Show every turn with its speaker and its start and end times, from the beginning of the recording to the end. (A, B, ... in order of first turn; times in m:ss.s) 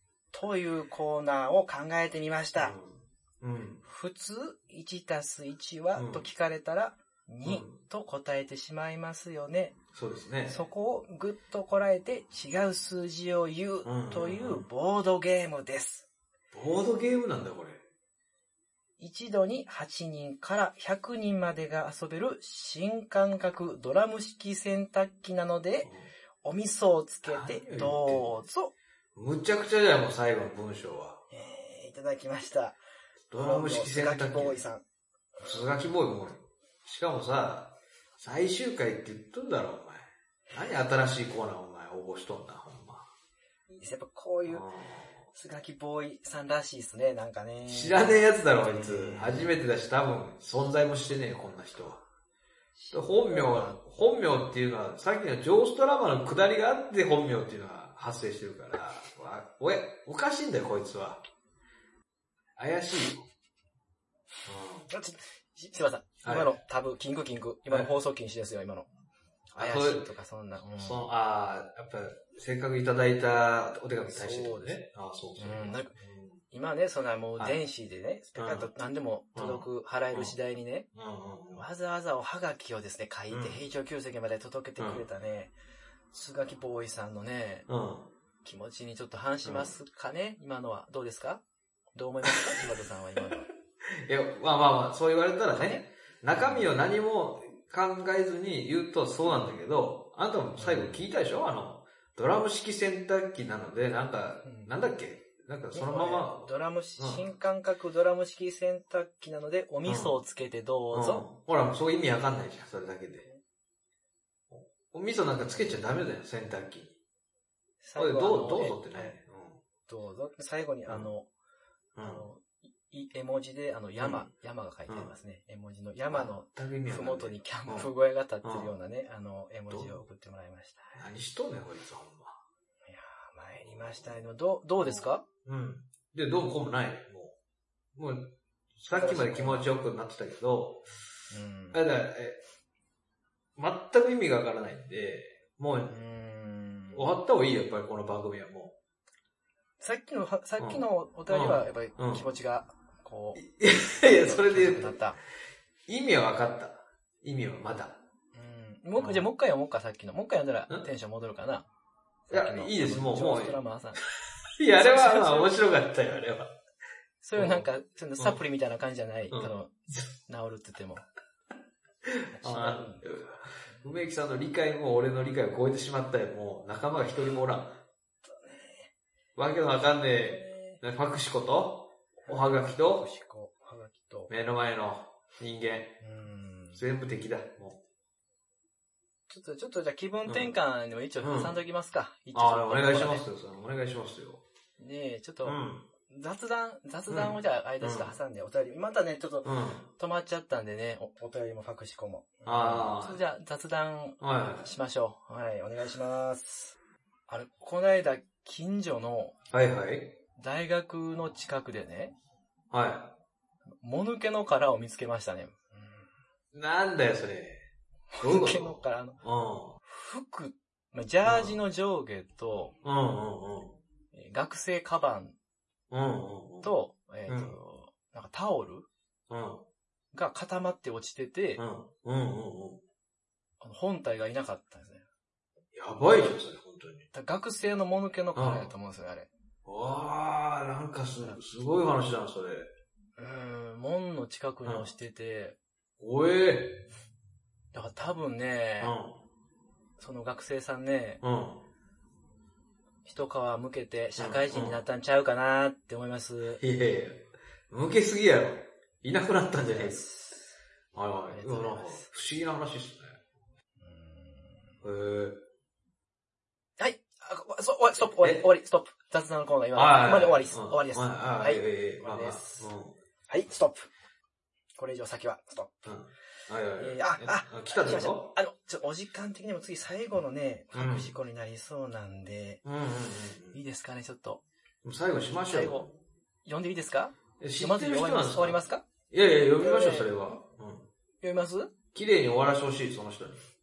0:00.3-0:02.8 A
0:02.6-0:03.8 B
0:03.8-0:09.8 A
0:05.9-0:06.2 B
0:07.4-0:07.8 B
0:09.9-0:10.6 B
0:10.5-0:16.1 A
0:13.8-0:14.6 B
0:16.5-0:17.8 B
0:19.0-0:25.9 A
0:25.8-0:26.1 B
0:26.4-0:28.7 A
0:27.2-0:28.3 B
0:29.1-0:31.2 B
0:31.3-0:32.8 A
0:33.3-0:34.6 B
0:33.3-0:34.8 A
0:35.4-0:43.1 B
0:43.7-0:44.6 A
0:44.5-0:45.1 B
0:45.3-0:49.5 A
0:47.7-0:52.0 B
0:52.8-0:53.8 A
0:52.9-1:01.2 B
1:02.6-1:03.3 B
1:04.4-1:04.9 B
1:04.9-1:08.9 A
1:06.2-1:06.6 B
1:09.5-1:10.0 B
1:09.6-1:11.0 A
1:10.8-1:16.4 B
1:14.0-1:14.8 A
1:15.4-1:16.0 A
1:16.5-1:20.9 A
1:18.4-1:18.7 B
1:19.3-1:20.3 B
1:20.9-1:21.6 B
1:21.5-1:25.5 A
1:23.3-1:23.6 B
1:24.8-1:25.0 B
1:26.1-1:27.7 A
1:27.7-1:28.1 B
1:28.4-1:31.4 A
1:29.4-1:29.7 B
1:31.9-1:33.5 A
1:32.3-1:32.6 B
1:33.9-1:47.2 B
1:35.5-1:35.8 A
1:36.3-1:36.7 A
1:40.6-1:41.0 A
1:44.4-1:44.7 A
1:45.7-1:51.2 A
1:49.8-1:50.1 B
1:50.9-1:53.2 B
1:54.5-1:57.0 B
1:55.5-1:55.8 A
1:57.8-1:59.2 A
1:58.0-1:59.6 B
1:59.9-2:01.3 A
2:02.0-2:02.2 B
2:02.0-2:11.0 A
2:04.0-2:04.3 B
2:06.1-2:07.9 B
2:08.4-2:08.7 B
2:09.7-2:10.0 B
2:10.9-2:12.4 B
2:12.9-2:15.2 A
2:13.6-2:14.2 B
2:14.8-2:17.4 B
2:17.9-2:20.9 B
2:18.9-2:19.7 A
2:21.3-2:21.8 A
2:21.7-2:22.4 B
2:23.6-2:25.9 B
2:25.8-2:27.1 A
2:26.9-2:28.8 B
2:29.8-2:35.2 A
2:30.6-2:32.2 B
2:33.4-2:35.0 B
2:35.9-2:38.0 B
2:38.3-2:41.7 A
2:39.0-2:39.3 B
2:42.3-2:44.0 A
2:42.3-2:43.6 B
2:44.6-2:46.5 B
2:44.8-2:45.6 A
2:47.2-2:49.7 A
2:47.4-2:47.6 B
2:49.3-2:50.0 B
2:50.3-2:51.0 A
2:52.0-2:57.8 B
2:52.3-2:53.9 A
2:58.2-2:58.9 A
2:59.4-3:03.1 B
3:00.1-3:00.8 A
3:02.2-3:04.3 A
3:04.3-3:06.0 B
3:06.0-3:06.8 A
3:06.7-3:07.8 B
3:09.3-3:13.2 A
3:10.2-3:10.6 B
3:11.2-3:11.6 B
3:12.3-3:14.4 B
3:14.8-3:26.8 A
3:15.4-3:15.9 B
3:17.1-3:18.1 B
3:19.4-3:19.9 B
3:22.4-3:23.2 B
3:24.2-3:24.7 B
3:27.3-3:29.4 A
3:29.5-3:30.2 B
3:30.4-3:32.1 A
3:32.7-3:33.1 B
3:33.8-3:36.1 A
3:36.5-3:37.6 B
3:38.1-3:39.2 A
3:38.2-3:39.8 B
3:39.8-3:42.8 A
3:41.2-3:41.6 B
3:42.8-3:43.8 B
3:44.1-3:45.4 A
3:45.9-3:46.7 B
3:46.6-3:48.9 A
3:47.3-3:47.5 B
3:49.3-3:49.7 B
3:50.1-3:51.6 A
3:51.6-3:52.8 B
3:53.6-3:55.0 A
3:55.7-3:57.0 B
3:57.1-3:59.3 A
3:58.3-3:58.7 B
3:59.6-4:02.7 B
4:03.2-4:05.6 A
4:06.0-4:06.8 B
4:07.7-4:08.9 A
4:08.8-4:09.2 B
4:10.0-4:11.2 A
4:11.2-4:11.6 B
4:13.0-4:16.6 A
4:14.2-4:14.8 B
4:16.6-4:20.0 B
4:19.6-4:20.5 A
4:20.9-4:23.2 B
4:21.3-4:22.1 A
4:23.8-4:24.8 A
4:24.8-4:25.4 B
4:26.8-4:32.7 A
4:28.2-4:28.4 B
4:29.7-4:33.0 B
4:33.3-4:33.9 A
4:34.8-4:35.8 A
4:35.8-4:38.3 B
4:36.8-4:42.6 A
4:40.7-4:41.1 B
4:42.6-4:43.6 B
4:43.5-4:44.4 A
4:44.8-4:46.0 B
4:45.3-4:45.9 A
4:46.4-4:48.8 A
4:47.4-4:50.9 B
4:49.6-4:50.4 A
4:51.2-4:51.7 A
4:51.9-4:53.5 B